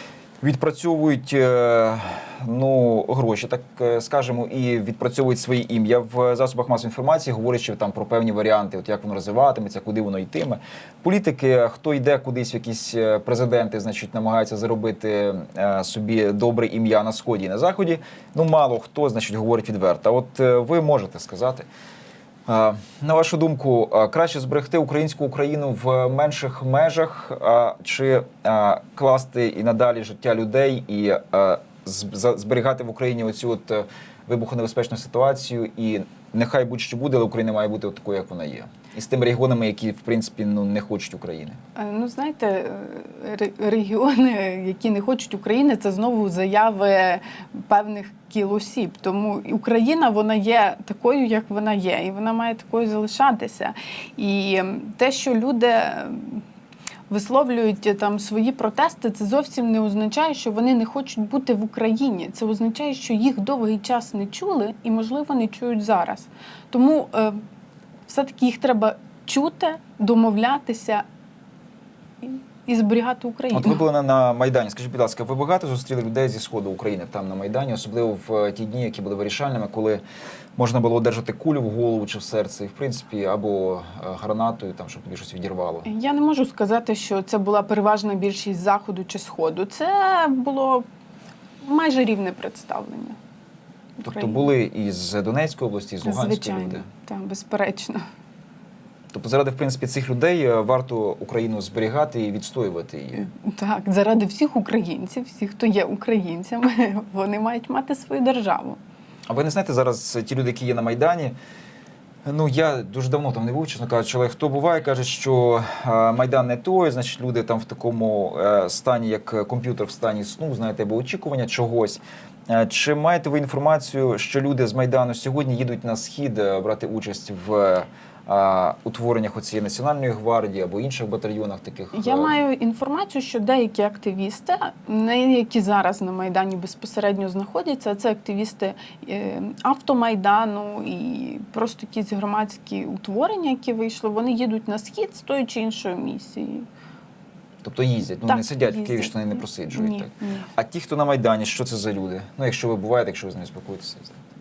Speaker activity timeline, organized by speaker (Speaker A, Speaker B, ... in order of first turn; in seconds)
Speaker A: 0.4-21.7, 22.5-41.6, 73.5-80.0, 80.6-85.9, 94.0-96.9, 99.1-103.3, 109.3-111.3, 112.2-132.4, 147.6-154.2
Speaker B: 41.8-56.4, 57.1-67.4, 68.1-71.0, 72.2-73.8, 85.8-90.9, 91.6-93.2, 94.0-94.5, 96.0-98.0, 103.2-108.8, 131.9-146.7, 148.3-150.5